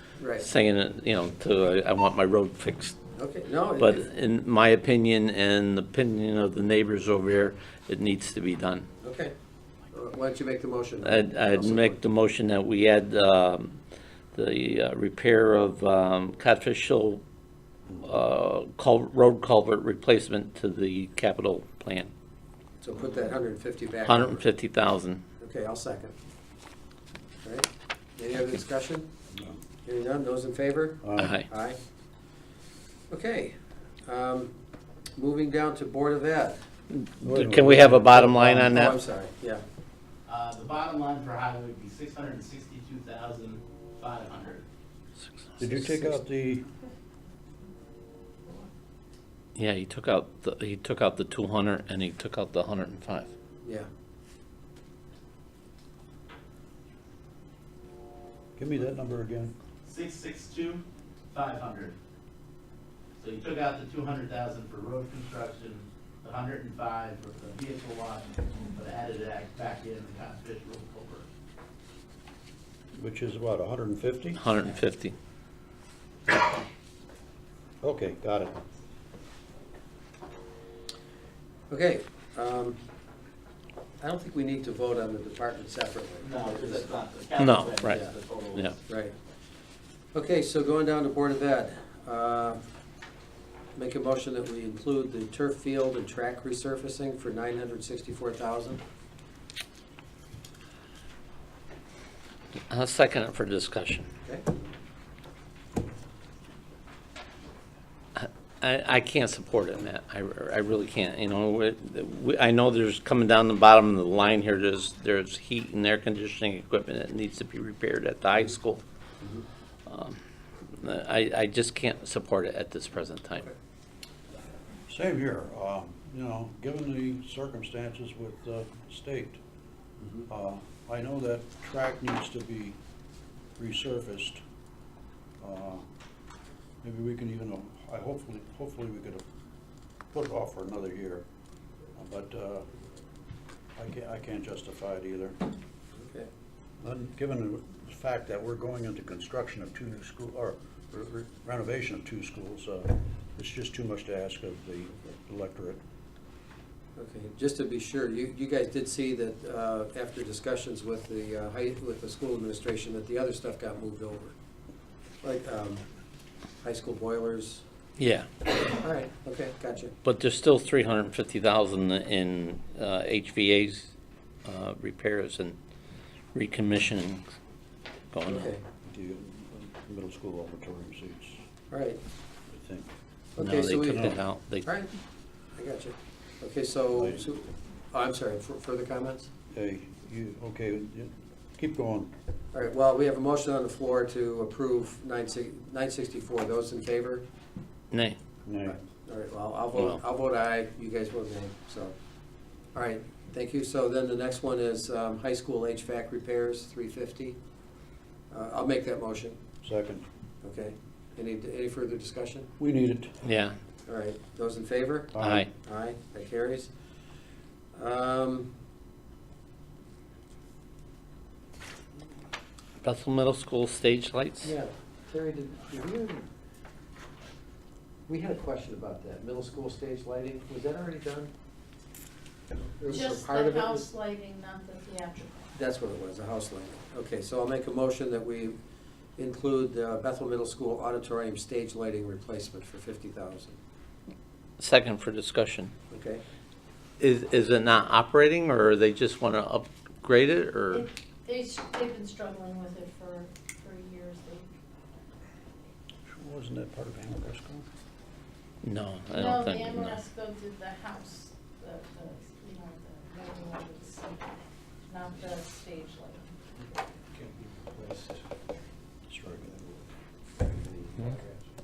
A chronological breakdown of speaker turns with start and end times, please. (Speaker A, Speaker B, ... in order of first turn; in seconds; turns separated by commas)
Speaker A: 0.2-0.5, Speaker B: 0.4-3.0, Speaker A: 3.1-4.1, Speaker B: 3.8-8.9, Speaker A: 9.0-9.3, Speaker A: 9.9-12.0, Speaker B: 11.0-13.8, Speaker B: 14.3-17.2, Speaker B: 18.0-22.1, Speaker A: 22.8-24.4, Speaker B: 24.1-25.2, Speaker A: 25.4-26.1, Speaker A: 27.4-29.1, Speaker C: 29.3-29.6, Speaker A: 29.9-31.8, Speaker C: 31.0-31.4, Speaker B: 31.2-31.5, Speaker A: 33.1-34.5, Speaker A: 35.2-36.6, Speaker B: 36.9-39.0, Speaker C: 37.2-38.7, Speaker A: 38.6-39.6, Speaker D: 40.3-44.6, Speaker C: 45.6-46.7, Speaker A: 45.8-46.1, Speaker B: 49.5-53.3, Speaker A: 53.6-53.9, Speaker C: 58.6-59.5, Speaker D: 59.9-62.0, Speaker D: 63.2-71.3, Speaker C: 72.9-74.4, Speaker B: 74.4-75.2, Speaker C: 77.8-78.6, Speaker A: 81.7-82.8, Speaker A: 84.0-87.0, Speaker D: 86.2-88.8, Speaker B: 87.4-88.8, Speaker A: 88.9-89.2, Speaker A: 90.1-92.6, Speaker A: 93.8-98.8, Speaker B: 102.7-104.1, Speaker B: 108.2-118.8, Speaker B: 119.9-123.5, Speaker C: 124.9-129.4, Speaker A: 130.0-130.3, Speaker C: 130.3-132.8, Speaker C: 133.6-134.4, Speaker C: 135.4-135.8, Speaker C: 136.8-139.2, Speaker C: 140.1-141.2, Speaker C: 142.0-142.7, Speaker C: 143.8-145.4, Speaker A: 145.9-146.3, Speaker C: 146.8-155.8, Speaker A: 157.0-164.3, Speaker A: 165.2-165.8, Speaker A: 166.6-167.6, Speaker B: 168.0-168.3, Speaker A: 168.8-169.9, Speaker B: 170.0-173.9, Speaker B: 174.4-175.6, Speaker B: 176.3-177.3, Speaker B: 178.1-178.5, Speaker A: 178.3-178.6, Speaker C: 178.9-181.4, Speaker A: 181.7-182.0, Speaker C: 182.5-182.9, Speaker A: 183.4-184.9, Speaker B: 183.4-184.7, Speaker C: 183.8-184.2, Speaker A: 185.6-189.3, Speaker C: 187.0-187.3, Speaker C: 189.5-192.1, Speaker A: 192.5-197.2, Speaker B: 197.9-198.2, Speaker C: 198.5-198.8, Speaker A: 198.7-201.9, Speaker A: 202.7-207.4, Speaker A: 208.3-209.4, Speaker C: 209.6-210.1, Speaker A: 210.4-212.5, Speaker C: 212.6-213.1, Speaker B: 213.2-213.6, Speaker A: 213.9-216.7, Speaker C: 215.1-215.5, Speaker B: 215.2-215.5, Speaker A: 217.7-218.5, Speaker B: 222.8-224.6, Speaker A: 224.4-226.3, Speaker A: 228.1-231.3, Speaker A: 232.7-233.9, Speaker E: 232.9-235.4, Speaker A: 235.5-238.6, Speaker A: 239.2-243.6, Speaker B: 244.6-245.7, Speaker A: 245.9-246.2, Speaker B: 247.0-250.9, Speaker E: 250.7-254.5, Speaker C: 256.1-257.6, Speaker B: 258.6-260.0, Speaker E: 259.2-266.3, Speaker A: 267.7-268.1, Speaker C: 269.1-269.6, Speaker A: 270.4-271.3